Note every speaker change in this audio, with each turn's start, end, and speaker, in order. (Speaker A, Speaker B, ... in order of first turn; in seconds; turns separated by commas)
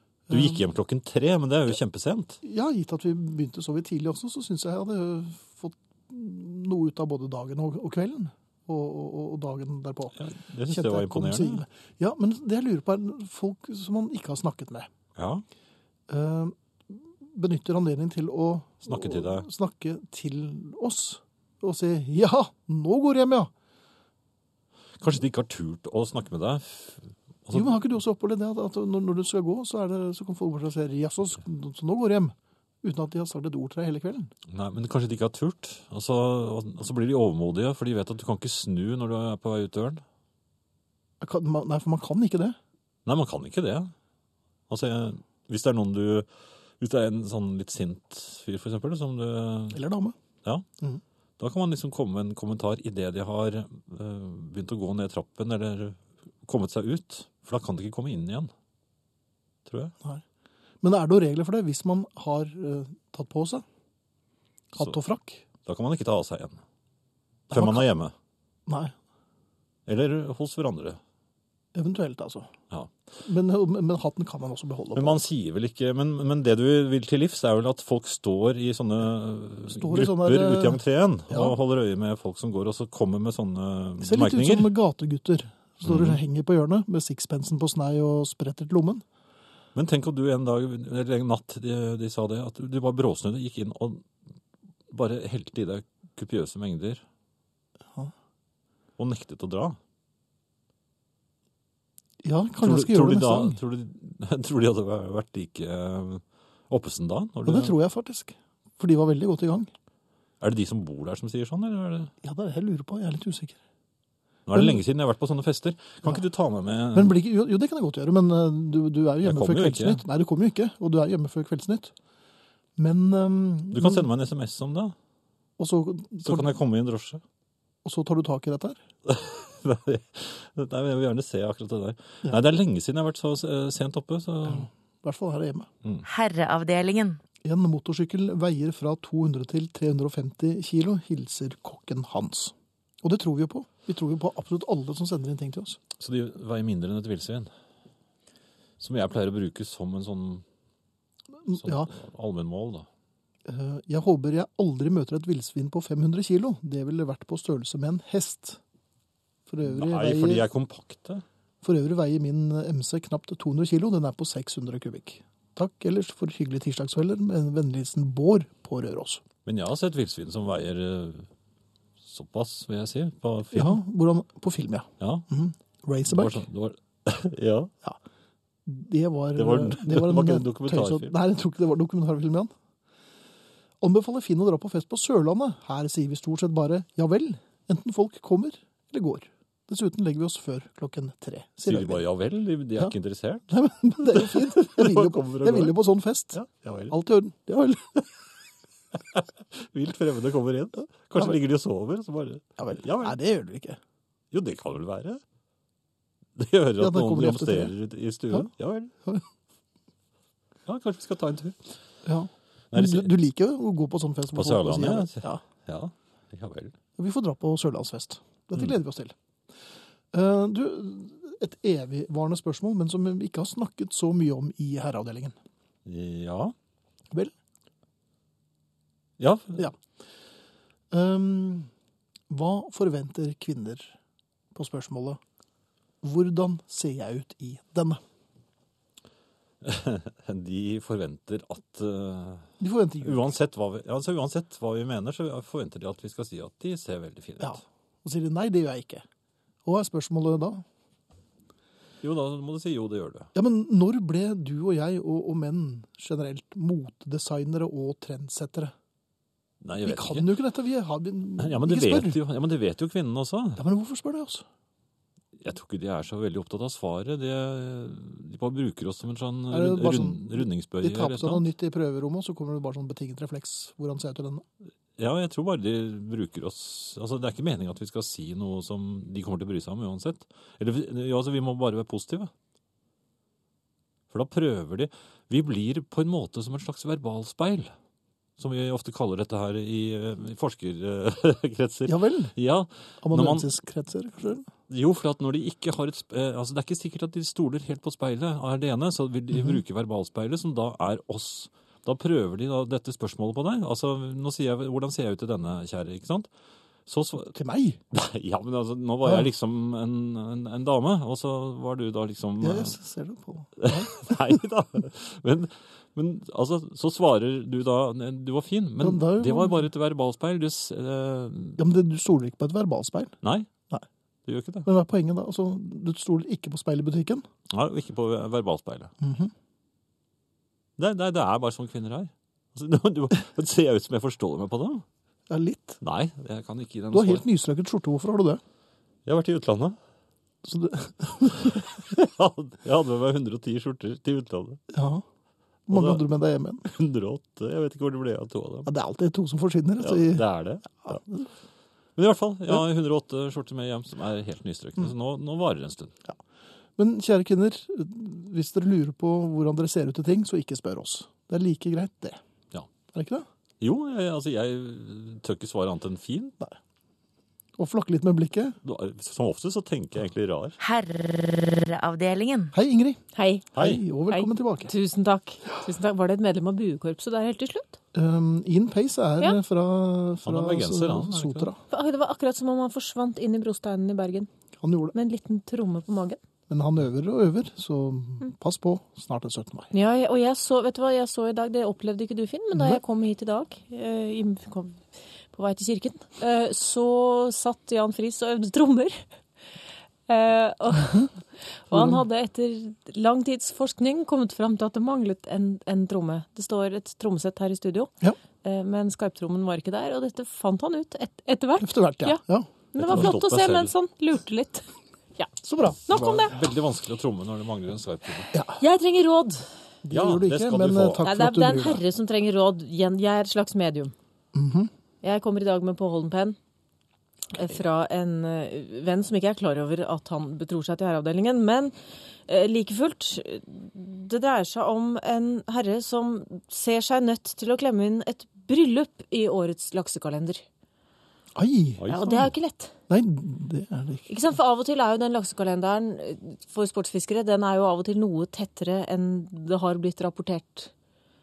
Speaker A: 0.3-0.6, Speaker B: 0.3-2.4, Speaker A: 2.4-14.9, Speaker B: 10.2-11.6, Speaker B: 15.2-15.4, Speaker A: 16.1-23.5, Speaker B: 18.9-19.5, Speaker B: 25.0-27.8, Speaker A: 27.5-34.3, Speaker B: 34.5-40.0, Speaker A: 41.2-42.6, Speaker B: 43.0-43.9, Speaker B: 44.7-46.3, Speaker B: 46.8-49.8, Speaker A: 49.7-50.2, Speaker B: 51.4-58.5, Speaker B: 59.7-59.9, Speaker A: 60.8-63.6, Speaker A: 64.7-65.4, Speaker B: 65.7-66.6, Speaker A: 67.5-67.9, Speaker B: 67.5-68.2, Speaker A: 68.7-68.9, Speaker B: 69.9-71.0, Speaker A: 71.8-72.5, Speaker A: 73.2-75.2, Speaker B: 75.0-84.7, Speaker A: 79.7-81.5, Speaker A: 84.0-89.0, Speaker B: 85.8-86.2, Speaker B: 89.8-94.1, Speaker B: 94.9-97.0, Speaker B: 99.0-99.8, Speaker A: 102.2-103.6, Speaker B: 102.6-107.8, Speaker A: 107.5-109.7, Speaker B: 110.4-112.1, Speaker A: 112.2-113.6, Speaker B: 114.5-117.2, Speaker A: 114.5-114.8, Speaker A: 116.9-121.9, Speaker B: 119.2-120.0, Speaker A: 122.8-124.1, Speaker B: 123.7-125.0, Speaker A: 125.6-126.5, Speaker B: 126.2-127.2, Speaker A: 127.8-128.8, Speaker B: 129.1-134.7, Speaker A: 134.5-135.7, Speaker C: 136.0-137.2, Speaker A: 137.4-145.8, Speaker B: 146.0-147.5, Speaker B: 148.8-150.4, Speaker A: 151.5-151.9, Speaker B: 151.5-152.9, Speaker A: 153.4-158.6, Speaker A: 159.5-160.5, Speaker B: 159.6-161.2, Speaker A: 161.6-169.2, Speaker B: 169.4-171.3, Speaker B: 172.0-173.8, Speaker A: 173.5-176.4, Speaker B: 175.0-175.3, Speaker B: 176.1-177.7, Speaker A: 178.7-182.5, Speaker B: 179.3-181.2, Speaker A: 183.8-192.1, Speaker B: 191.7-193.5, Speaker A: 193.5-198.1, Speaker B: 194.0-195.8, Speaker B: 196.3-196.9, Speaker B: 198.9-203.2, Speaker A: 202.6-203.8, Speaker B: 204.3-205.2, Speaker B: 206.4-208.9, Speaker A: 206.8-207.7, Speaker B: 210.7-211.6, Speaker A: 212.1-215.4, Speaker B: 212.7-213.2, Speaker B: 214.3-216.8, Speaker A: 217.0-219.2, Speaker A: 220.1-225.4, Speaker B: 225.8-226.5, Speaker B: 229.2-229.6, Speaker A: 230.9-231.7, Speaker A: 232.3-233.9, Speaker A: 234.6-235.2, Speaker A: 236.0-238.0, Speaker B: 239.6-247.6, Speaker A: 242.6-243.3, Speaker A: 247.4-249.1, Speaker A: 249.7-250.6, Speaker B: 252.0-253.3, Speaker A: 253.3-258.7, Speaker B: 259.6-260.3, Speaker A: 259.8-262.2, Speaker B: 261.4-263.6, Speaker A: 263.6-264.4, Speaker B: 265.4-271.5, Speaker A: 269.5-274.4, Speaker B: 275.0-282.3, Speaker B: 284.1-287.7, Speaker B: 288.4-293.5, Speaker A: 291.9-292.3, Speaker A: 293.0-294.5, Speaker B: 294.7-306.3, Speaker B: 306.9-307.4, Speaker A: 307.3-307.8, Speaker B: 307.9-312.8, Speaker A: 312.4-314.4, Speaker B: 313.6-321.6, Speaker A: 318.8-319.7, Speaker A: 321.6-323.2, Speaker B: 323.2-323.5, Speaker B: 324.2-324.7, Speaker A: 324.6-327.3, Speaker B: 327.5-328.9, Speaker A: 329.0-329.3, Speaker B: 330.8-334.9, Speaker A: 335.3-335.8, Speaker B: 335.8-337.2, Speaker A: 336.9-338.4, Speaker B: 339.1-339.8, Speaker A: 340.4-341.7, Speaker B: 341.4-344.6, Speaker A: 344.7-345.0, Speaker A: 345.7-346.7, Speaker B: 345.7-346.0, Speaker B: 346.6-348.7, Speaker A: 348.7-350.2, Speaker B: 349.8-351.0, Speaker A: 350.8-351.2, Speaker B: 352.0-356.0, Speaker A: 356.8-362.2, Speaker A: 362.9-363.3, Speaker B: 363.6-366.4, Speaker A: 367.6-368.6, Speaker B: 368.6-370.6, Speaker C: 370.6-372.5, Speaker A: 372.5-373.0, Speaker D: 373.1-373.5, Speaker B: 373.5-373.8, Speaker A: 373.5-374.7, Speaker D: 374.1-377.8, Speaker A: 377.9-381.6, Speaker B: 380.2-381.5, Speaker D: 381.7-384.3, Speaker A: 384.6-384.9, Speaker D: 384.9-386.2, Speaker A: 386.5-389.7, Speaker D: 389.7-399.0, Speaker D: 400.1-412.2, Speaker A: 401.7-402.0, Speaker A: 411.6-413.1, Speaker D: 412.7-415.3, Speaker B: 412.8-413.7, Speaker A: 415.4-415.8, Speaker D: 415.9-416.4, Speaker B: 415.9-418.3, Speaker A: 418.3-418.6, Speaker D: 418.6-419.5, Speaker A: 419.8-421.8, Speaker B: 419.9-421.1, Speaker D: 421.0-423.9, Speaker A: 424.3-424.7, Speaker D: 425.0-426.4, Speaker D: 427.3-431.8, Speaker D: 432.3-440.4, Speaker A: 441.4-441.9, Speaker B: 441.8-442.3, Speaker D: 441.9-442.7, Speaker A: 442.9-444.1, Speaker D: 444.1-450.7